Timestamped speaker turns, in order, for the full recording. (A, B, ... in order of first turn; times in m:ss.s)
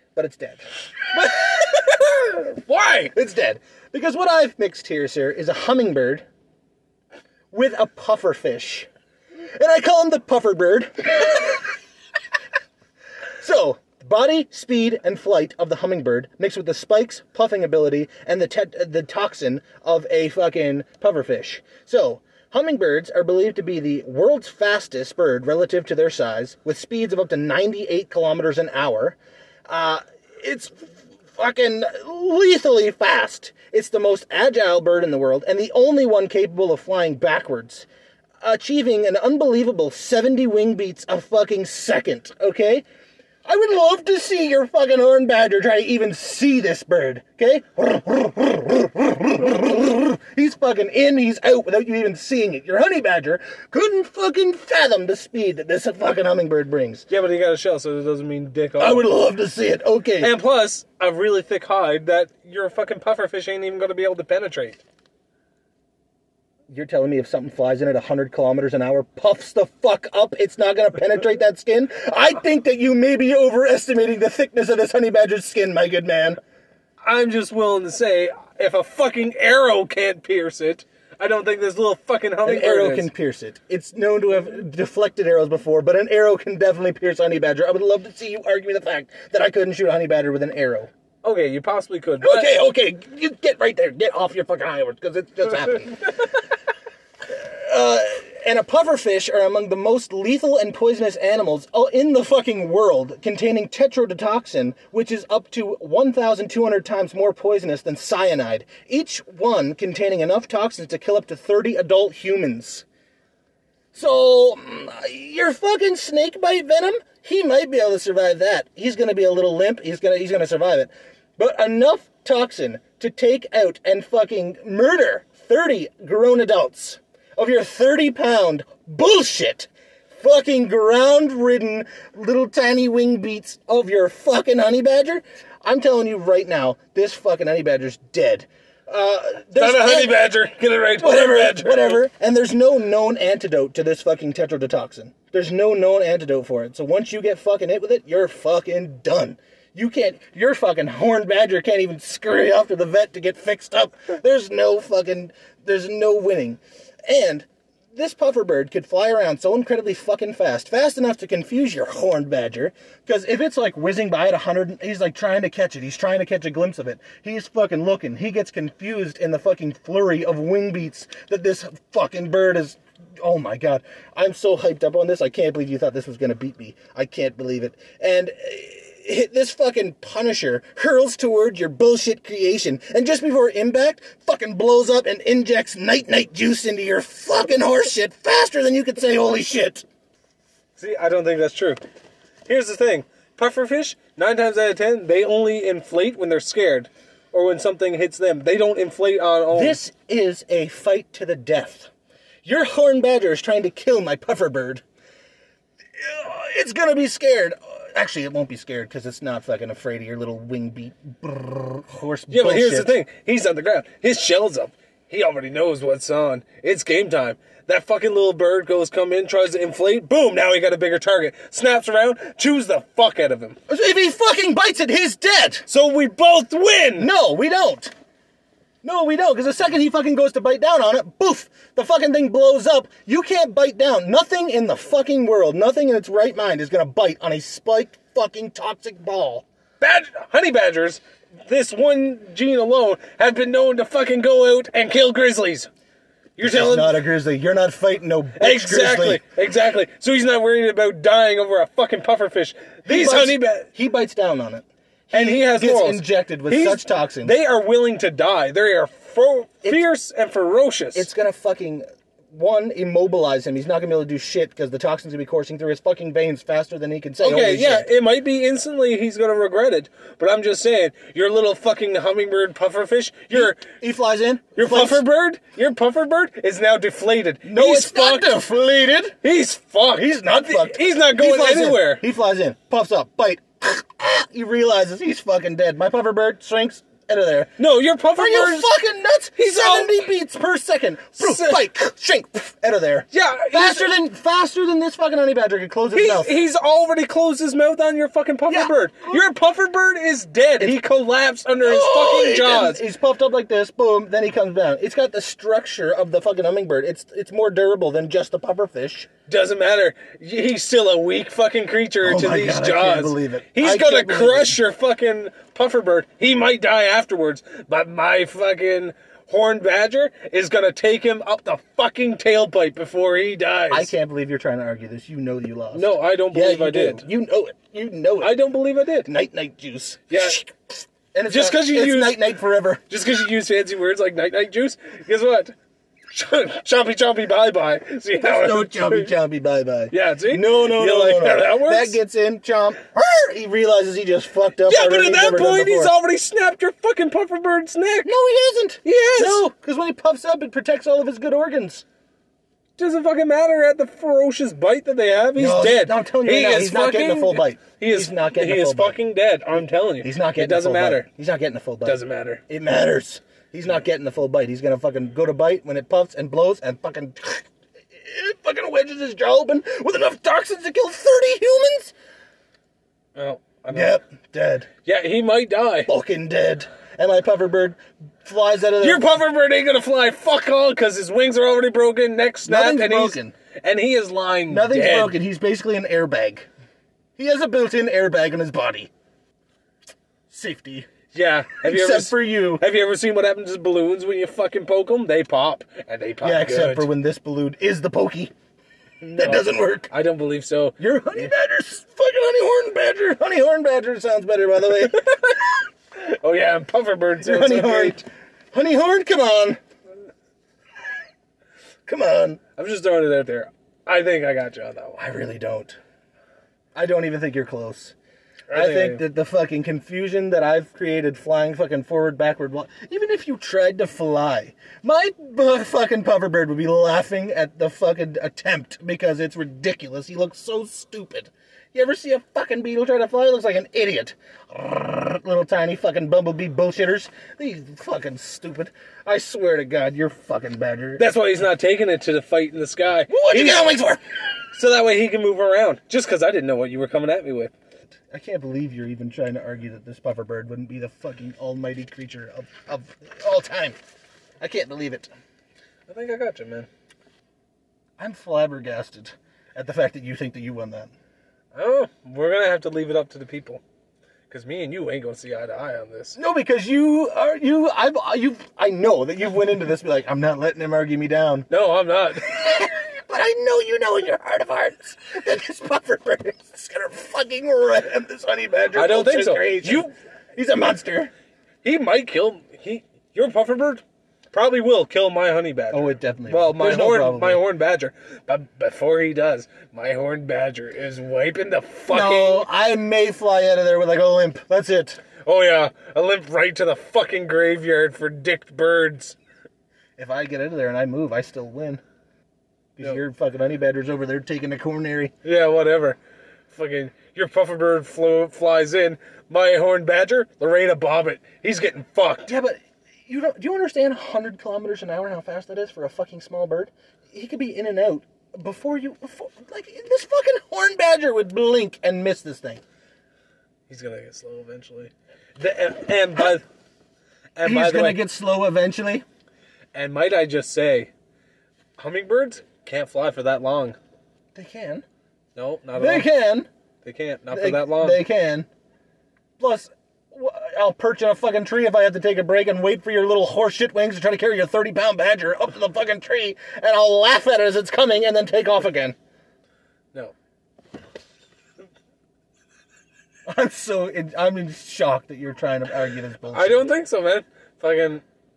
0:00.1-0:01.7 A
0:01.2-0:03.1 B
0:03.1-0:06.2 A
0:07.5-0:08.9 A
0:09.5-0:11.6 A
0:13.4-0:29.2 A
0:29.7-0:37.9 A
0:38.4-0:42.8 A
0:43.4-0:57.0 A
0:57.1-0:59.1 B
0:58.8-1:00.3 A
1:00.2-1:04.8 B
1:06.7-1:16.4 A
1:17.0-1:23.1 B
1:22.4-1:30.9 A
1:31.2-1:32.6 B
1:32.2-1:36.4 A
1:37.3-1:52.8 A
1:53.9-2:20.3 A
2:19.6-2:22.0 B
2:21.0-3:09.8 A
3:10.8-3:11.8 B
3:12.5-3:19.8 B
3:19.5-3:21.9 A
3:22.4-3:24.8 A
3:26.0-3:32.9 A
3:32.3-3:43.6 B
3:43.7-3:45.7 A
3:45.7-3:47.1 B
3:47.0-3:47.9 A
3:48.8-3:59.4 A
3:59.8-4:05.7 B
4:06.4-4:07.0 B
4:06.4-4:09.2 A
4:08.4-4:13.7 B
4:12.8-4:17.3 A
4:15.1-4:21.1 B
4:20.9-4:27.9 A
4:27.2-4:33.6 B
4:33.3-4:35.0 A
4:34.6-4:38.4 B
4:37.4-4:39.2 A
4:39.2-4:42.0 B
4:39.9-4:47.5 A
4:47.6-4:48.7 B
4:48.1-4:56.3 A
4:49.4-4:50.1 B
4:51.2-4:51.6 B
4:53.1-4:53.9 B
4:55.9-5:02.8 B
4:58.5-4:59.2 A
5:01.6-5:09.1 A
5:09.3-5:23.9 B
5:12.0-5:14.6 A
5:23.7-5:28.4 A
5:25.7-5:27.0 B
5:28.2-5:29.1 B
5:29.0-5:32.8 A
5:30.1-5:30.4 B
5:31.3-5:32.2 B
5:32.9-5:35.5 B
5:36.1-5:39.1 B
5:38.2-5:45.9 A
5:39.9-5:42.0 B
5:44.6-5:48.1 B
5:48.0-5:51.8 A
5:48.8-5:49.4 B
5:52.8-6:01.1 B
5:55.4-5:59.0 A
6:00.0-6:11.9 A
6:01.8-6:02.4 B
6:13.2-6:14.0 B
6:13.7-6:14.7 A
6:14.8-6:15.9 B
6:15.9-6:19.0 A
6:18.8-6:25.2 B
6:22.4-6:23.3 A
6:24.5-6:26.5 A
6:27.2-6:28.9 A
6:30.3-6:30.9 A
6:31.1-6:36.9 B
6:31.6-6:32.6 A
6:36.2-6:38.3 A
6:39.0-6:40.8 B
6:39.1-6:39.9 A
6:40.8-6:45.1 A
6:44.8-6:48.0 B
6:47.2-6:49.6 A
6:51.8-6:52.4 A
6:52.6-6:55.0 B
6:55.0-6:55.8 A
6:56.7-6:57.9 A
6:58.5-6:59.0 B
6:58.5-7:21.1 A
7:21.0-7:23.8 B
7:23.1-7:24.0 A
7:24.5-7:27.5 B
7:28.1-7:33.8 A
7:34.4-7:35.1 A
7:35.9-7:36.7 B
7:38.0-7:40.9 A
7:41.5-7:43.6 B
7:44.3-7:46.2 B
7:46.2-7:51.5 A
7:51.5-7:52.3 B
7:52.2-8:01.1 A
7:58.7-7:59.9 B
8:01.6-8:12.4 B
8:05.7-8:07.4 A
8:11.9-8:15.0 A
8:15.2-8:19.2 B
8:20.0-8:21.8 A
8:22.8-8:25.1 A
8:25.2-8:26.0 B
8:26.5-8:32.3 B
8:32.2-8:42.6 A
8:43.7-8:46.4 B
8:47.4-8:48.0 B
8:47.4-8:49.0 A
8:49.7-8:50.9 B
8:51.8-8:53.8 B
8:54.3-8:54.8 A
8:55.4-8:56.1 B
8:55.8-8:56.5 A
8:56.8-8:58.0 B
8:57.3-8:58.5 A
8:59.4-9:09.0 A
9:13.3-9:16.7 A
9:16.3-9:18.0 B